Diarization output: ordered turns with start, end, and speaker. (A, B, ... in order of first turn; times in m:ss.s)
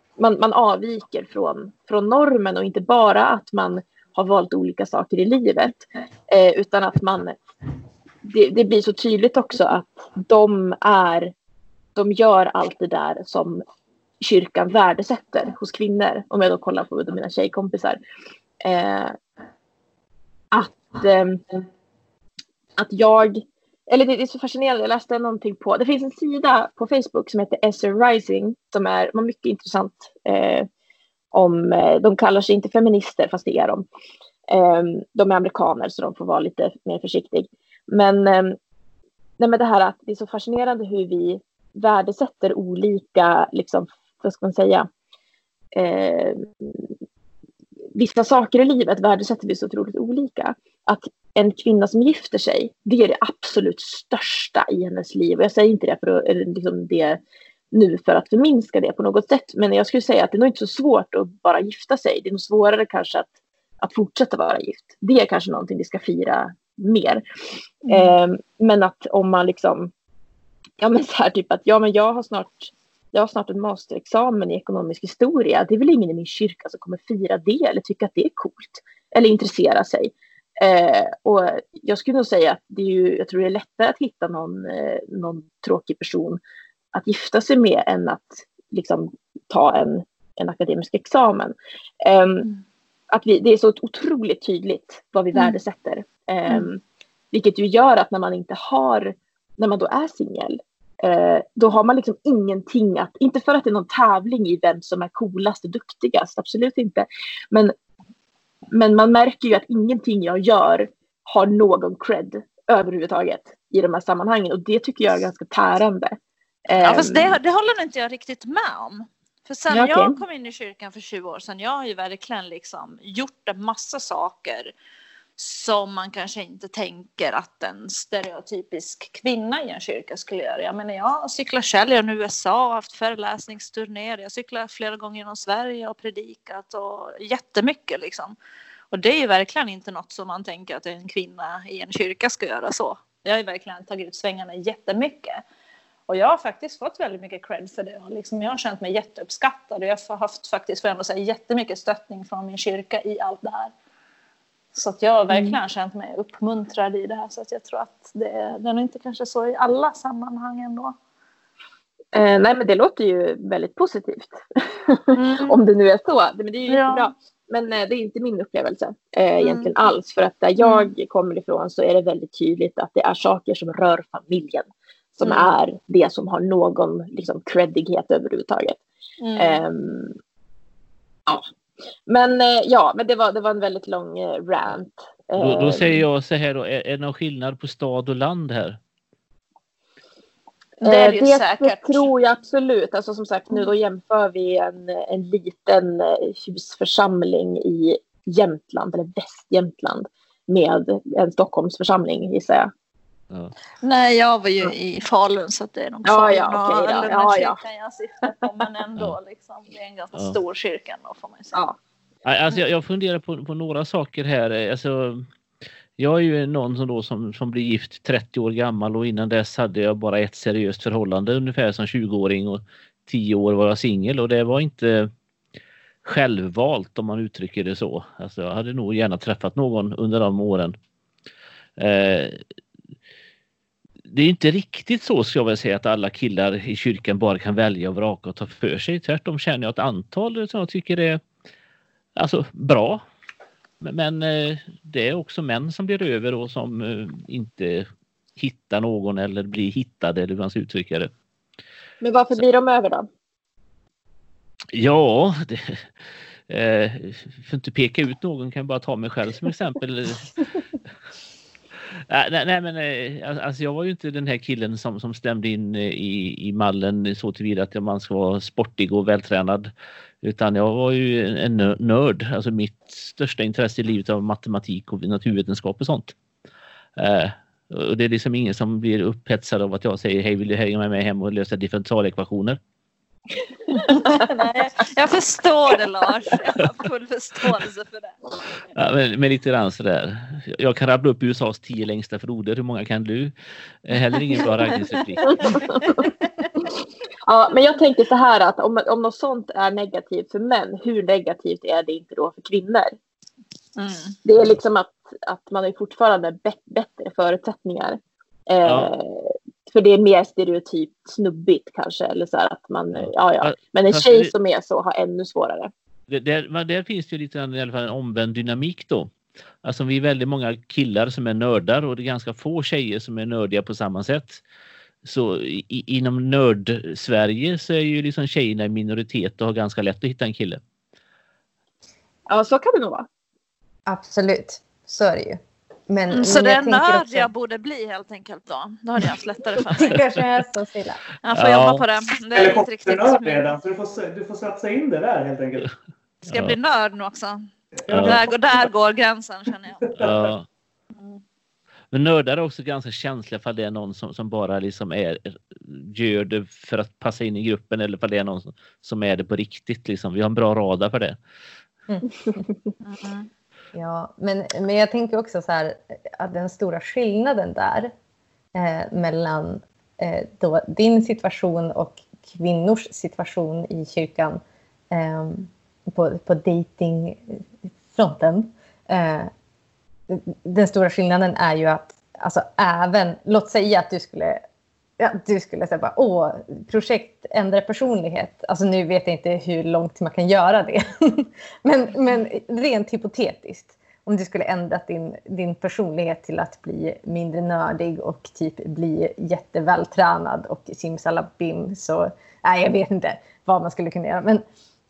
0:00.2-0:07.4 A
0:08.2-0:11.3 A
0:12.0-0:13.6 A
0:14.2-0:18.0 A
0:18.6-0:19.2 A
0:20.5-0:21.4 A
0:22.8-0:30.7 A
0:31.3-0:33.8 A
0:34.5-0:38.6 A
0:39.4-0:44.9 A
0:45.7-0:46.9 A
0:47.9-0:57.2 A
0:57.7-1:03.3 A
1:03.8-1:07.2 A
1:07.8-1:08.2 B
1:07.9-1:09.9 A
1:10.8-1:26.4 A
1:26.9-1:32.5 A
1:33.1-1:47.7 A
1:48.7-1:56.2 A
1:56.7-1:57.4 A
1:56.8-2:04.7 B
1:59.7-2:00.2 A
2:05.4-2:18.4 B
2:18.9-2:25.4 B
2:26.1-2:33.7 B
2:34.7-2:40.9 B
2:42.1-2:54.7 A
2:45.1-2:45.6 B
2:46.7-2:47.1 B
2:49.4-2:49.7 B
2:50.6-2:50.9 B
2:55.2-2:58.8 A
2:55.2-2:55.5 B
2:59.2-2:59.6 B
2:59.4-3:00.1 A
3:02.1-3:06.0 A
3:05.4-3:08.8 C
3:10.8-3:12.1 B
3:10.8-3:22.7 A
3:23.8-3:31.6 B
3:26.0-3:27.6 A
3:32.2-3:35.3 C
3:36.0-3:45.1 C
3:46.0-3:50.8 C
3:51.8-3:52.4 C
3:54.0-4:01.2 C
4:02.2-4:03.0 C
4:03.8-4:11.1 C
4:12.0-4:13.1 A
4:14.7-4:15.9 C
4:16.5-4:20.3 C
4:21.9-4:29.7 C
4:30.2-4:36.1 C
4:37.0-4:42.6 C
4:43.7-4:48.2 B
4:48.7-4:55.7 C
4:54.3-4:56.5 B
4:55.3-4:56.1 A
4:57.2-5:02.9 A
5:03.8-5:04.2 B
5:04.2-5:15.7 A
5:08.6-5:08.9 C
5:12.9-5:14.3 C
5:16.1-5:19.1 C
5:19.6-5:24.4 C
5:25.0-5:30.6 C
5:32.3-5:33.1 A
5:33.9-5:37.3 D
5:36.1-5:40.0 B
5:39.7-5:41.0 D
5:41.2-5:43.6 B
5:41.3-5:41.8 C
5:42.3-5:45.7 E
5:46.2-5:49.9 B
5:47.8-5:48.7 E
5:47.9-5:48.2 C
5:49.8-5:50.3 E
5:50.0-5:50.4 C
5:51.9-6:01.2 C
6:01.9-6:02.4 D
6:02.8-6:03.3 B
6:03.7-6:07.9 D
6:08.5-6:19.3 D
6:20.1-6:24.4 D
6:25.0-6:44.4 D